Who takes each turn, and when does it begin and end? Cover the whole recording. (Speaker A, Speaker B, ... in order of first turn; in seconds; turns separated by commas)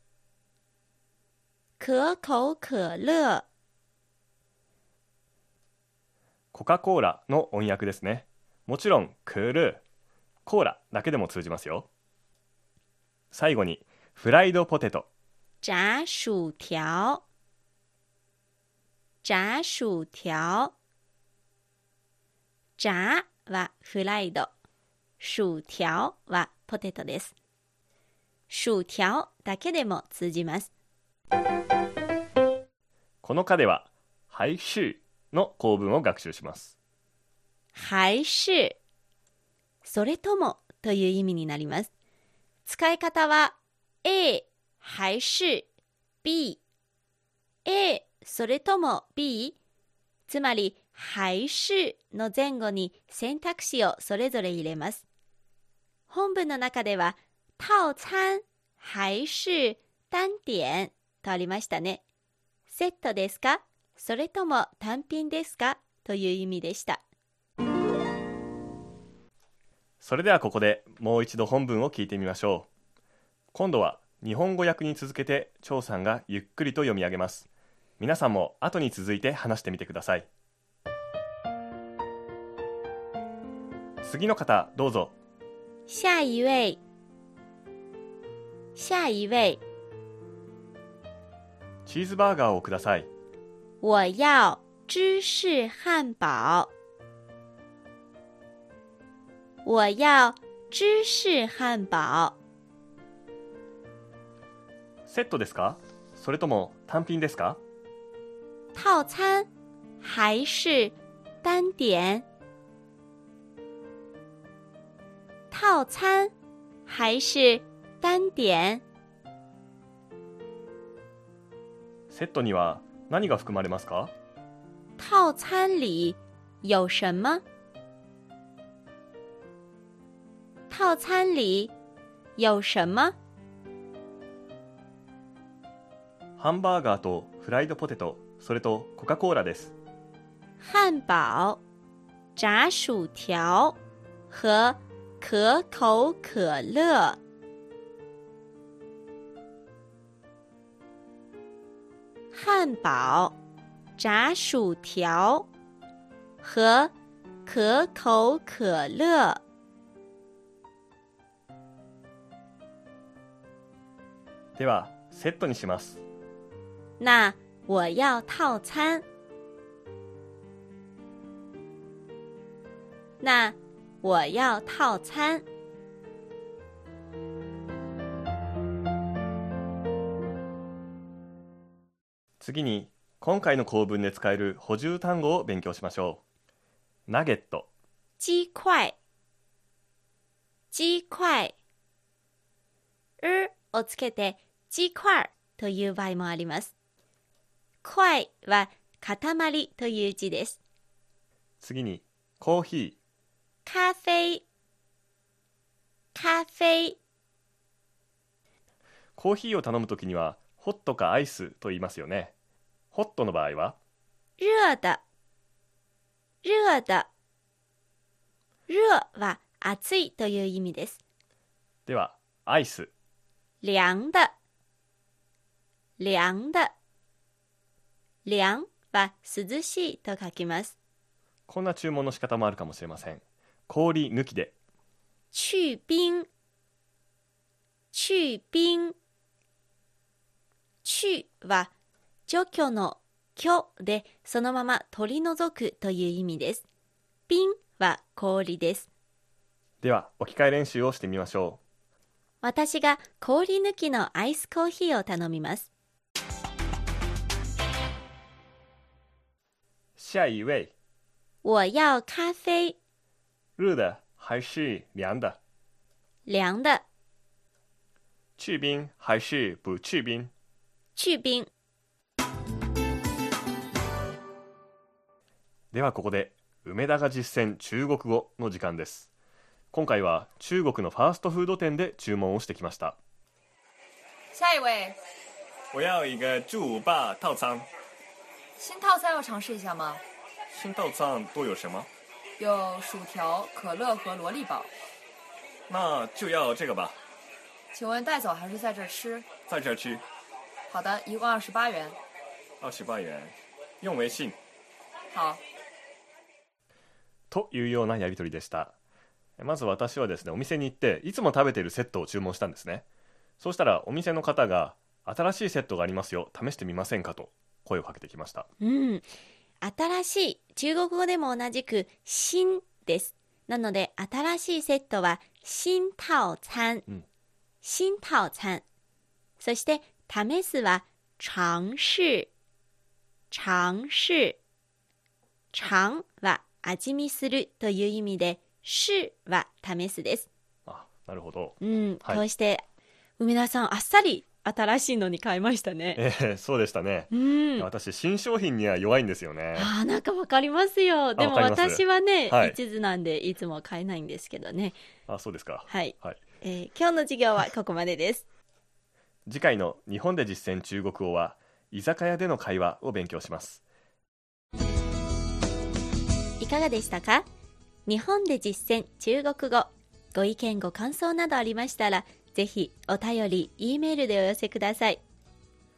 Speaker A: 1.8-3.5, Speaker B: 6.5-9.8, Speaker B: 10.4-11.9, Speaker B: 13.3-15.1, Speaker A: 15.6-17.2, Speaker A: 19.2-20.7, Speaker A: 22.8-24.5, Speaker A: 25.2-27.3, Speaker A: 28.5-30.7, Speaker B: 33.2-36.7, Speaker A: 37.7-38.8, Speaker A: 39.8-41.9, Speaker A: 42.6-45.7, Speaker A: 46.2-46.6, Speaker A: 47.6-49.5, Speaker A: 50.3-55.0, Speaker A: 56.1-62.0, Speaker A: 62.7-67.0, Speaker B: 70.0-72.7, Speaker B: 73.5-77.5, Speaker B: 78.0-80.3, Speaker B: 84.0-85.1, Speaker A: 85.9-86.8, Speaker A: 88.8-89.6, Speaker B: 91.8-93.1, Speaker A: 93.8-96.7, Speaker A: 99.6-102.3, Speaker B: 105.1-107.6, Speaker A: 108.7-109.5, Speaker A: 110.0-112.2, Speaker A: 115.5-116.3, Speaker A: 116.8-118.8, Speaker B: 122.1-124.1, Speaker A: 125.0-127.4, Speaker A: 130.7-131.7, Speaker A: 132.4-133.2, Speaker B: 136.4-139.7, Speaker A: 140.6-141.6, Speaker A: 142.3-143.8, Speaker A: 144.3-147.2, Speaker A: 152.3-153.3, Speaker A: 154.0-155.5, Speaker A: 156.4-156.9, Speaker A: 157.4-159.4, Speaker B: 164.6-166.0, Speaker A: 167.0-169.0, Speaker A: 173.2-175.4, Speaker B: 182.4-186.2, Speaker B: 187.1-187.7, Speaker A: 188.2-188.9, Speaker A: 190.7-191.5, Speaker A: 193.2-196.7, Speaker A: 197.8-200.6, Speaker B: 201.6-203.0, Speaker A: 203.6-204.4, Speaker A: 206.1-207.0, Speaker B: 209.2-212.3, Speaker B: 212.9-213.8, Speaker A: 214.4-215.0, Speaker A: 216.4-217.1, Speaker A: 218.7-221.0, Speaker B: 221.9-222.9, Speaker A: 223.6-224.3, Speaker A: 226.0-226.7, Speaker A: 228.2-230.8, Speaker B: 231.5-234.5, Speaker A: 235.3-236.3, Speaker A: 237.9-238.9, Speaker A: 240.8-241.7, Speaker A: 242.3-246.6, Speaker A: 247.3-248.9, Speaker B: 249.8-251.6, Speaker A: 252.4-255.7, Speaker B: 260.0-260.7, Speaker A: 261.4-262.8, Speaker B: 263.6-265.4, Speaker A: 266.3-266.8, Speaker B: 268.4-270.3, Speaker A: 270.9-271.5, Speaker B: 275.7-279.1, Speaker B: 279.7-283.0, Speaker C: 284.3-285.0, Speaker B: 285.7-287.7, Speaker C: 288.6-290.0, Speaker B: 290.5-291.9, Speaker C: 292.4-294.7, Speaker B: 295.7-297.0, Speaker C: 297.7-299.2, Speaker B: 299.5-300.0, Speaker C: 300.7-302.0, Speaker B: 302.6-304.4, Speaker C: 305.1-305.4, Speaker B: 307.3-308.7, Speaker B: 309.4-312.8, Speaker B: 313.4-318.5, Speaker A: 318.6-319.1, Speaker A: 319.6-326.9, Speaker A: 327.6-328.6, Speaker A: 329.4-332.3, Speaker A: 333.3-334.4, Speaker A: 335.5-340.3, Speaker B: 340.6-342.2, Speaker A: 341.6-342.6, Speaker A: 343.2-346.0, Speaker B: 345.9-349.7, Speaker A: 347.1-347.7, Speaker A: 349.5-354.8, Speaker B: 351.2-352.6, Speaker B: 355.1-356.2, Speaker A: 355.7-358.2, Speaker B: 359.2-363.6, Speaker A: 366.4-367.2, Speaker A: 367.9-375.0